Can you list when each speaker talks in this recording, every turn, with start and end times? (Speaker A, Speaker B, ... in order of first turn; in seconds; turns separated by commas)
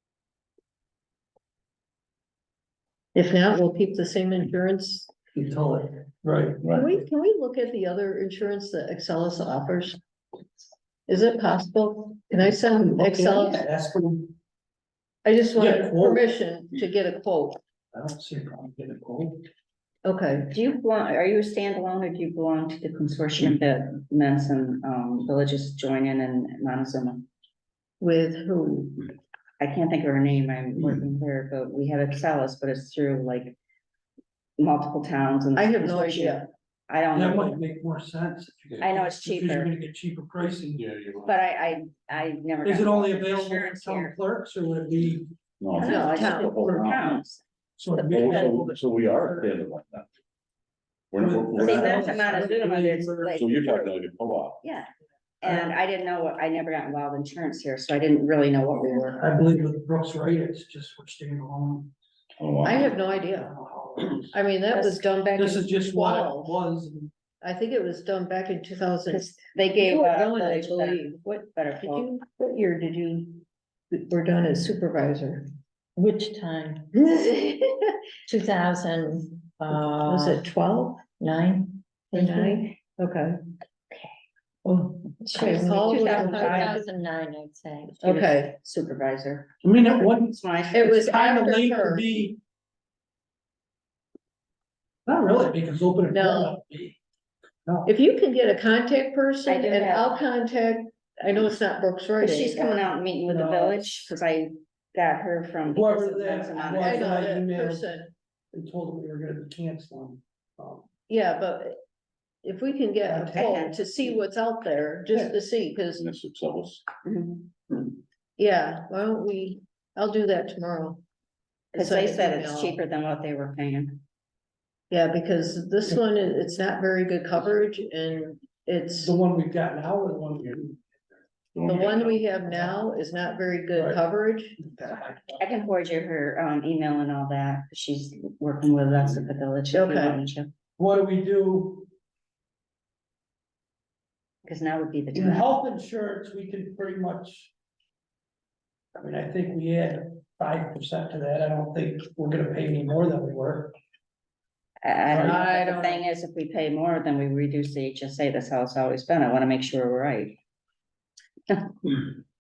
Speaker A: 3.1-5.1, Speaker B: 5.3-6.6, Speaker C: 6.6-6.9, Speaker A: 6.7-10.0, Speaker A: 11.1-13.7, Speaker B: 12.4-14.3, Speaker A: 15.2-17.6, Speaker B: 15.6-16.3, Speaker B: 17.9-19.5, Speaker A: 20.1-20.5, Speaker D: 20.5-27.3, Speaker A: 28.0-29.0, Speaker D: 29.6-33.6, Speaker D: 34.6-37.6, Speaker A: 35.6-36.5, Speaker B: 37.1-41.3, Speaker D: 38.8-39.7, Speaker D: 41.2-44.2, Speaker B: 42.6-45.3, Speaker C: 45.6-47.2, Speaker D: 45.8-47.4, Speaker A: 45.8-46.6, Speaker B: 47.8-49.5, Speaker C: 48.0-50.1, Speaker C: 51.1-52.4, Speaker B: 51.2-53.4, Speaker D: 51.6-54.1, Speaker C: 53.4-54.6, Speaker D: 54.6-54.9, Speaker D: 55.4-59.2, Speaker B: 55.4-55.7, Speaker B: 59.2-61.9, Speaker C: 62.4-62.9, Speaker A: 62.6-63.5, Speaker B: 62.8-64.3, Speaker A: 64.3-66.6, Speaker D: 64.7-65.0, Speaker B: 65.3-67.1, Speaker A: 67.4-75.5, Speaker D: 69.1-72.1, Speaker E: 76.0-77.3, Speaker A: 77.2-77.7, Speaker E: 78.3-80.5, Speaker A: 79.7-81.1, Speaker E: 81.1-82.8, Speaker A: 82.1-83.4, Speaker A: 84.7-86.9, Speaker E: 84.9-88.0, Speaker D: 85.4-86.8, Speaker D: 87.9-89.5, Speaker A: 88.0-88.5, Speaker B: 89.6-92.4, Speaker D: 90.2-90.9, Speaker A: 90.7-92.1, Speaker B: 95.1-97.0, Speaker A: 96.1-96.5, Speaker B: 97.7-97.9, Speaker A: 97.9-102.8, Speaker D: 99.5-100.2, Speaker D: 102.2-107.2, Speaker B: 103.3-103.8, Speaker B: 105.7-108.0, Speaker A: 106.7-108.1, Speaker B: 108.5-110.9, Speaker A: 111.1-111.8, Speaker A: 112.4-116.1, Speaker B: 113.0-113.7, Speaker D: 113.3-114.2, Speaker C: 116.0-116.8, Speaker D: 117.0-117.5, Speaker A: 118.4-121.0, Speaker D: 121.7-124.0, Speaker A: 121.8-122.8, Speaker A: 124.9-129.2, Speaker B: 129.0-130.8, Speaker C: 131.6-132.2, Speaker A: 131.7-134.6, Speaker B: 131.7-132.8, Speaker B: 133.7-134.0, Speaker B: 134.6-135.4, Speaker D: 135.4-140.5, Speaker A: 139.7-140.2, Speaker B: 140.8-141.9, Speaker D: 144.4-145.5, Speaker B: 145.1-147.5, Speaker B: 148.9-153.8, Speaker D: 154.8-160.4, Speaker B: 155.1-155.5, Speaker A: 155.2-156.0, Speaker D: 161.5-162.2